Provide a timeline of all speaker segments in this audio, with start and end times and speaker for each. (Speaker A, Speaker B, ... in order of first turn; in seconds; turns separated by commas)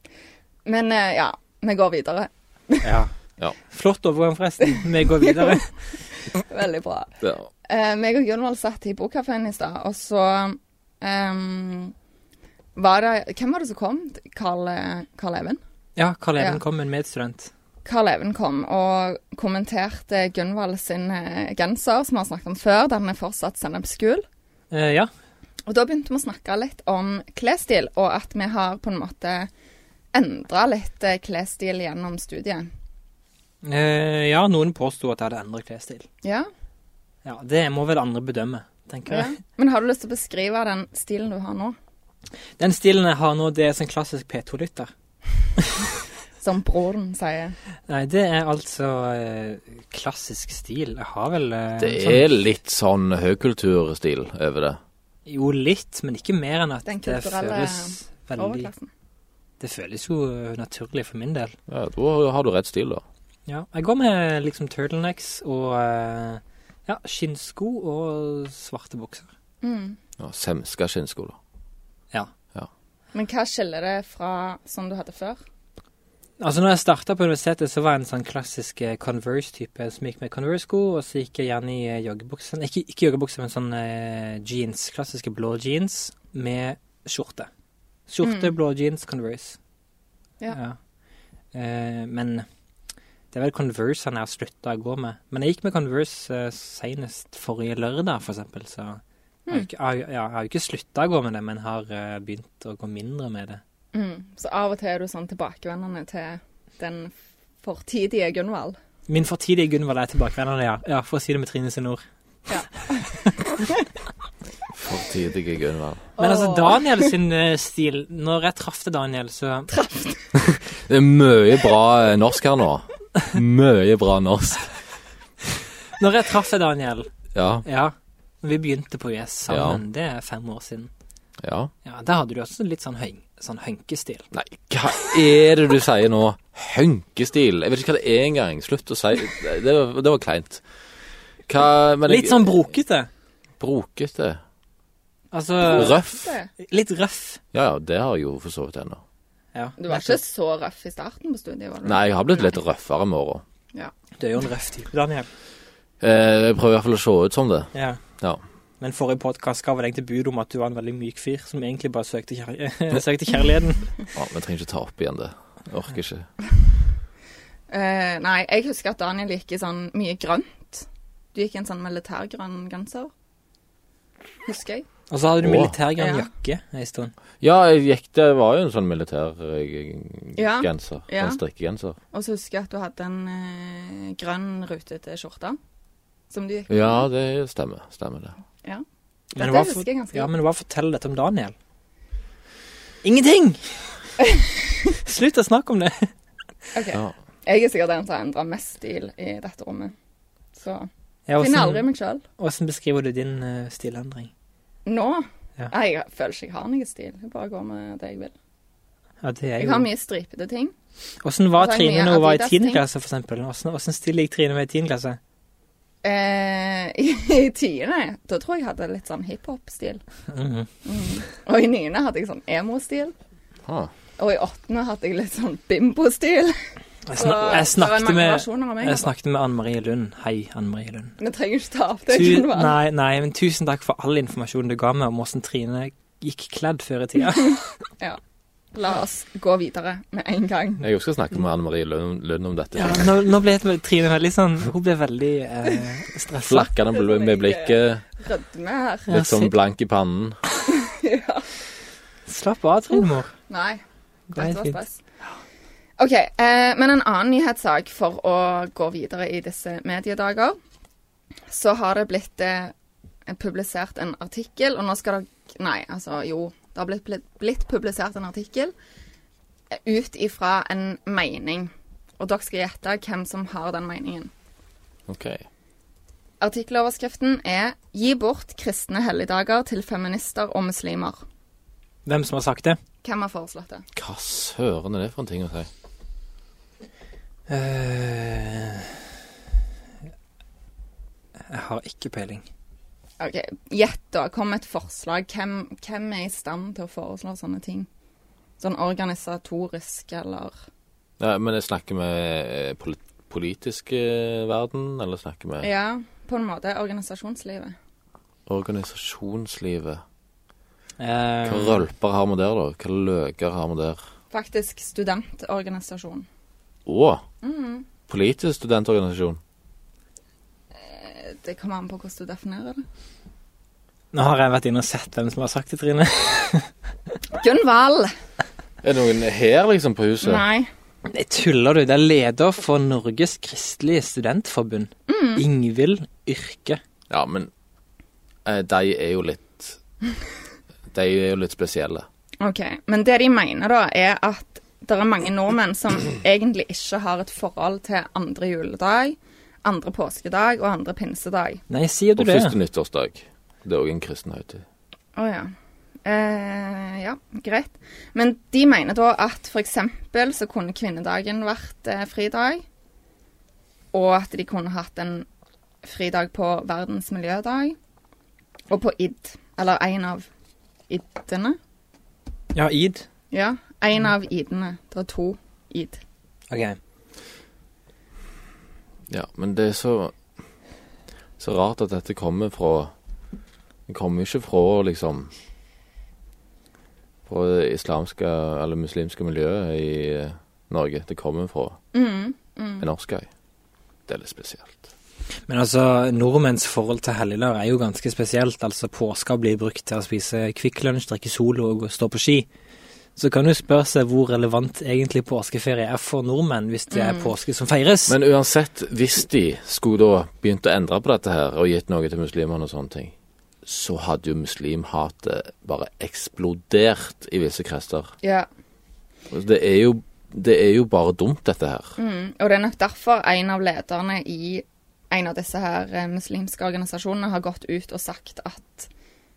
Speaker A: 0.6-3.0, Speaker B: 2.8-3.1, Speaker B: 3.6-5.8, Speaker A: 4.7-5.6, Speaker A: 6.1-7.1, Speaker C: 7.2-7.5, Speaker A: 7.6-11.9, Speaker A: 12.8-15.6, Speaker B: 16.0-17.5, Speaker A: 17.9-24.2, Speaker B: 24.7-25.1, Speaker A: 25.7-29.5, Speaker A: 30.1-32.7, Speaker B: 33.6-36.0, Speaker A: 36.2-36.5, Speaker B: 37.2-39.4, Speaker A: 39.1-41.8, Speaker B: 42.6-44.9, Speaker B: 45.6-45.9, Speaker A: 46.4-47.5, Speaker B: 47.9-52.2, Speaker C: 51.8-54.8, Speaker B: 55.2-58.7, Speaker A: 56.9-58.9, Speaker B: 59.6-61.5, Speaker C: 61.7-63.0, Speaker B: 63.5-69.3, Speaker A: 69.6-70.0, Speaker C: 70.2-71.4, Speaker A: 73.1-75.4, Speaker B: 76.4-87.5, Speaker B: 88.1-89.6, Speaker A: 88.2-88.5, Speaker B: 90.5-90.8, Speaker B: 91.5-92.5, Speaker B: 93.3-103.6, Speaker A: 103.9-108.8, Speaker B: 109.1-112.0, Speaker A: 112.5-113.8, Speaker B: 112.9-113.4, Speaker C: 114.7-116.1, Speaker A: 116.2-117.1, Speaker B: 116.2-119.8, Speaker A: 119.7-120.2, Speaker C: 120.3-124.8, Speaker B: 126.0-127.1, Speaker C: 127.3-127.6, Speaker B: 127.6-130.9, Speaker C: 129.5-129.8, Speaker C: 131.4-131.7, Speaker B: 131.8-134.3, Speaker C: 134.3-140.6, Speaker C: 141.5-142.6, Speaker B: 142.1-143.1, Speaker C: 143.6-144.4, Speaker B: 145.3-146.0, Speaker A: 145.6-146.5, Speaker C: 145.6-146.3, Speaker B: 146.6-147.4, Speaker C: 147.5-149.0, Speaker B: 149.5-150.2, Speaker A: 149.8-152.5, Speaker C: 151.8-153.4, Speaker B: 154.2-155.3, Speaker C: 156.0-158.4, Speaker B: 157.7-158.0, Speaker B: 158.8-163.9, Speaker C: 164.1-166.3, Speaker A: 167.7-173.1, Speaker A: 174.4-174.9, Speaker B: 175.1-177.1, Speaker C: 175.4-175.8, Speaker A: 176.0-176.3, Speaker C: 177.4-182.0, Speaker A: 180.4-181.4, Speaker A: 182.1-185.6, Speaker A: 186.3-187.1, Speaker C: 186.7-188.4, Speaker B: 189.3-191.5, Speaker A: 189.4-190.3, Speaker B: 193.0-194.1, Speaker B: 194.9-196.1, Speaker A: 196.7-199.9, Speaker A: 200.5-202.2, Speaker B: 201.3-201.9, Speaker B: 202.4-204.3, Speaker A: 204.9-208.3, Speaker B: 209.2-209.9, Speaker A: 209.6-210.7, Speaker B: 211.2-215.2, Speaker A: 211.6-212.8, Speaker A: 216.0-220.0, Speaker B: 220.3-220.7, Speaker A: 220.8-223.1, Speaker A: 224.2-226.6, Speaker B: 227.1-231.2, Speaker A: 227.1-229.1, Speaker A: 231.2-232.8, Speaker B: 232.1-237.7, Speaker A: 238.7-240.8, Speaker C: 240.8-243.1, Speaker B: 242.8-246.7, Speaker C: 246.5-248.0, Speaker A: 246.9-249.2, Speaker C: 249.1-250.4, Speaker B: 249.1-249.5, Speaker A: 250.7-251.5, Speaker B: 252.3-253.3, Speaker A: 253.5-253.8, Speaker A: 254.3-255.0, Speaker B: 254.3-254.8, Speaker A: 256.0-260.6, Speaker A: 261.5-262.7, Speaker A: 263.2-268.7, Speaker A: 269.7-274.3, Speaker C: 275.1-275.4, Speaker A: 276.4-281.2, Speaker B: 282.1-282.8, Speaker A: 283.0-283.9, Speaker C: 284.0-285.7, Speaker B: 287.5-289.0, Speaker B: 291.5-292.4, Speaker A: 293.2-297.9, Speaker A: 298.6-300.6, Speaker C: 301.2-305.7, Speaker A: 305.6-307.8, Speaker C: 308.5-310.0, Speaker B: 311.0-311.8, Speaker C: 311.4-314.0, Speaker A: 314.3-316.3, Speaker C: 316.9-317.2, Speaker A: 317.4-317.9, Speaker C: 318.1-319.4, Speaker A: 320.8-322.9, Speaker B: 324.1-326.7, Speaker A: 327.3-328.1, Speaker C: 328.8-330.4, Speaker A: 330.2-330.7, Speaker B: 331.1-336.8, Speaker A: 335.1-335.4, Speaker C: 337.1-337.5, Speaker C: 338.4-339.8, Speaker C: 340.9-342.1, Speaker A: 342.4-351.6, Speaker B: 351.7-352.5, Speaker C: 352.1-354.6, Speaker A: 355.1-355.5, Speaker A: 356.0-362.6, Speaker A: 363.9-365.3, Speaker A: 365.8-367.8, Speaker A: 368.7-370.3, Speaker A: 370.9-371.6, Speaker B: 372.5-373.1, Speaker A: 373.3-376.0, Speaker B: 376.5-376.8, Speaker C: 379.1-380.1, Speaker C: 381.4-382.9, Speaker C: 383.9-385.3, Speaker C: 387.3-391.8, Speaker A: 391.9-392.9, Speaker C: 392.8-393.3, Speaker C: 394.1-394.9, Speaker B: 395.5-402.5, Speaker B: 403.1-408.1, Speaker A: 406.9-407.3, Speaker C: 408.1-413.1, Speaker C: 413.6-418.1, Speaker A: 418.2-418.5, Speaker C: 419.3-421.9, Speaker A: 422.0-428.9